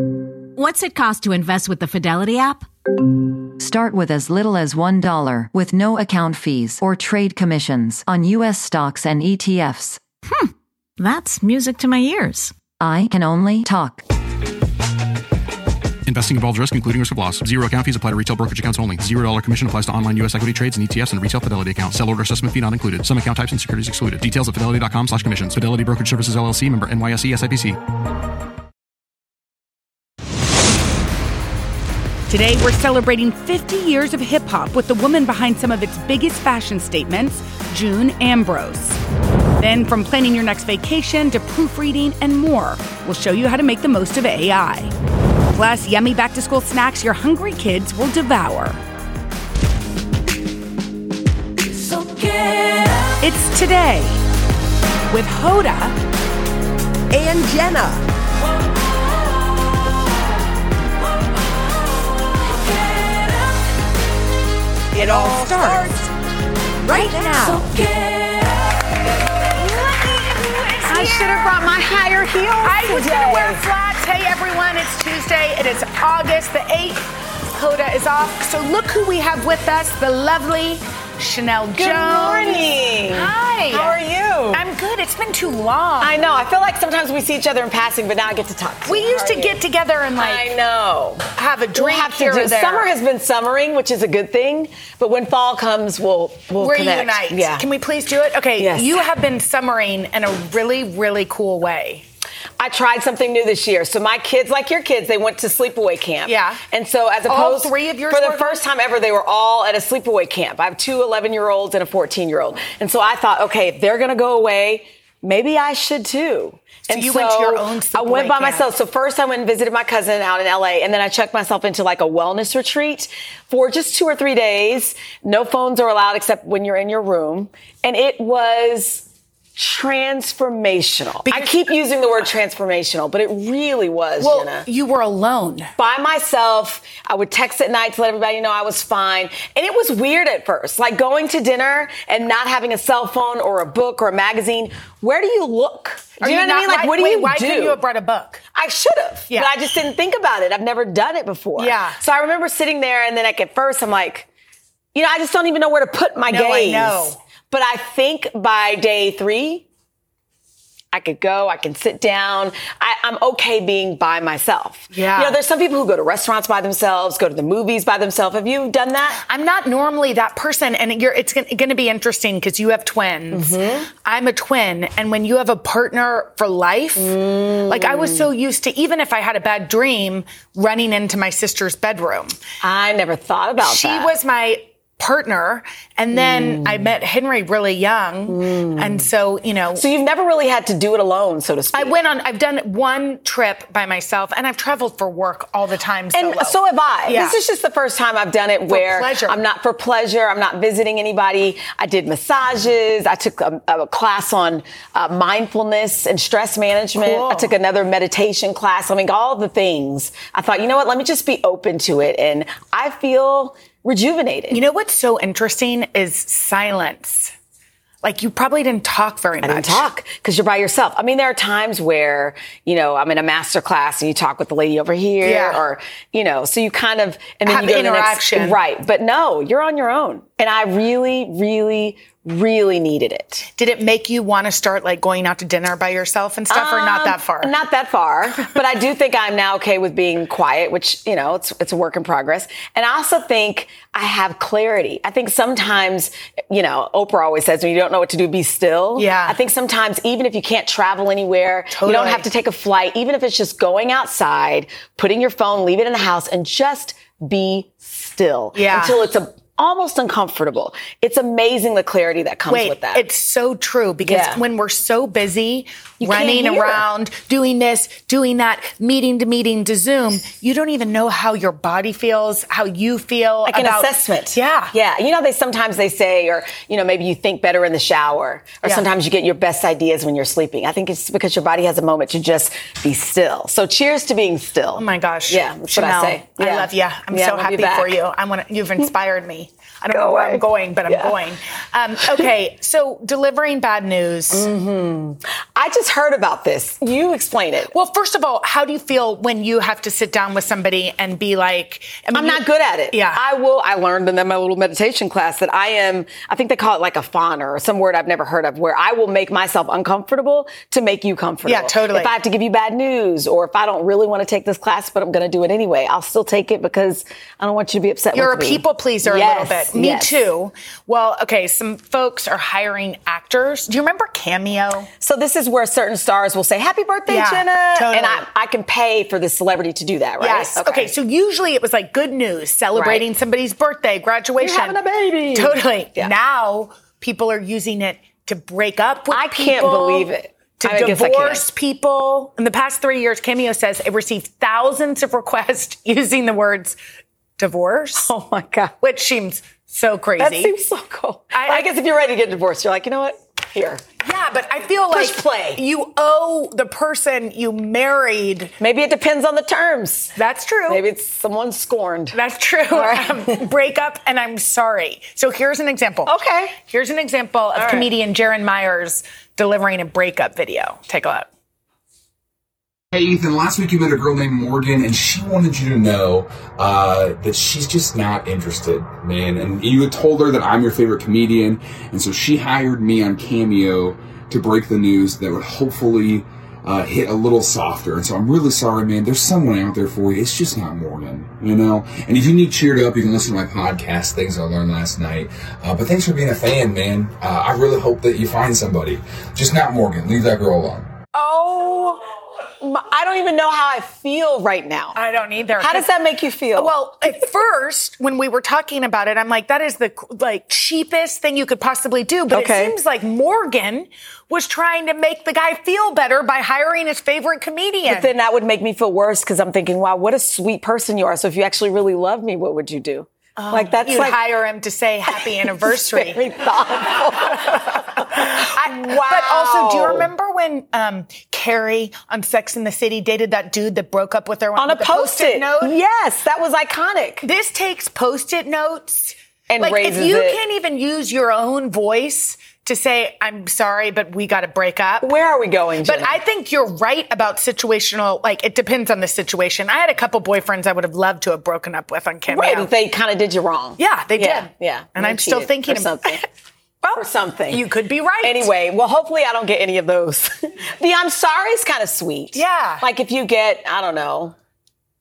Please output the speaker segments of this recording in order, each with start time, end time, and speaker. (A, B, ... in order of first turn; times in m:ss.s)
0:00.6-0:02.7 A
0:03.6-0:10.0 B
0:10.3-0:12.5 A
0:12.8-0:14.0 B
0:16.0-0:27.8 C
0:32.3-0:39.0 D
0:39.6-0:44.9 D
0:45.6-0:48.8 D
0:52.0-0:52.7 A
0:53.2-0:54.2 D
0:55.1-0:56.0 D
0:57.1-0:58.0 A
1:04.9-1:06.1 A
1:05.0-1:06.0 D
1:06.8-1:07.9 A
1:06.9-1:07.5 D
1:09.6-1:11.6 D
1:10.9-1:13.6 E
1:12.6-1:24.0 D
1:21.8-1:24.6 E
1:24.5-1:26.1 D
1:26.0-1:29.6 E
1:28.9-1:30.5 D
1:30.1-1:37.7 E
1:31.4-1:32.9 D
1:36.6-1:42.0 D
1:38.6-1:39.0 E
1:42.6-2:14.7 E
1:46.3-1:46.6 D
1:47.3-1:48.6 D
1:56.9-1:58.7 D
2:11.2-2:11.6 D
2:14.2-2:15.7 D
2:15.8-2:27.8 E
2:26.2-2:28.4 D
2:28.5-2:34.3 E
2:31.6-2:32.0 D
2:34.9-2:39.6 E
2:36.3-2:37.2 D
2:40.9-2:49.2 E
2:44.9-2:45.4 D
2:49.3-2:57.1 D
2:53.3-2:53.9 E
2:57.0-2:58.3 E
2:57.7-3:02.4 D
3:02.6-3:04.1 E
3:03.6-3:09.8 D
3:06.1-3:06.9 E
3:08.3-3:09.1 E
3:09.8-3:11.9 E
3:11.7-3:17.4 D
3:16.1-3:34.6 E
3:18.7-3:19.4 D
3:27.0-3:27.5 D
3:34.5-3:37.3 D
3:38.0-3:39.8 D
3:39.4-3:53.5 E
3:45.2-3:45.6 D
3:47.5-3:48.6 D
3:53.5-3:57.5 D
3:56.5-4:23.0 E
4:09.0-4:09.4 D
4:11.7-4:12.3 D
4:18.5-4:19.0 D
4:22.5-4:34.7 D
4:24.0-4:24.4 E
4:26.0-4:26.8 E
4:33.4-4:48.0 E
4:44.8-4:54.5 D
4:49.9-4:51.1 E
4:54.3-4:57.7 E
4:57.7-5:03.2 D
5:02.1-5:20.3 E
5:11.4-5:12.1 D
5:18.1-5:24.9 D
5:25.0-5:30.9 E
5:27.1-5:28.2 D
5:30.2-5:34.8 D
5:32.8-5:33.1 E
5:34.4-5:36.1 E
5:35.3-5:46.8 D
5:39.1-5:41.4 E
5:47.4-5:48.1 D
5:48.0-5:48.7 E
5:48.8-5:50.5 D
5:50.2-5:53.8 E
5:51.3-5:51.7 D
5:54.0-5:58.5 D
5:54.9-5:55.6 E
5:58.6-6:00.1 E
6:00.2-6:00.8 D
6:00.7-6:02.2 E
6:02.1-6:06.1 D
6:02.7-6:03.4 E
6:06.1-6:06.5 E
6:06.7-6:11.3 D
6:07.5-6:07.9 E
6:12.9-6:40.9 F
6:41.1-6:42.0 E
6:42.6-6:45.0 E
6:44.9-6:45.9 D
6:45.6-6:46.7 E
6:46.5-6:58.1 D
6:52.3-6:52.8 E
6:57.9-7:04.3 E
7:03.4-7:06.2 D
7:05.7-7:10.1 E
7:07.3-7:15.8 D
7:14.6-7:17.2 E
7:17.2-7:25.1 D
7:19.5-7:20.4 E
7:25.0-7:26.2 E
7:25.8-7:32.7 D
7:32.3-7:36.2 E
7:33.8-7:36.2 D
7:36.8-7:38.5 D
7:36.9-7:37.6 E
7:38.2-7:44.3 E
7:42.3-7:42.8 D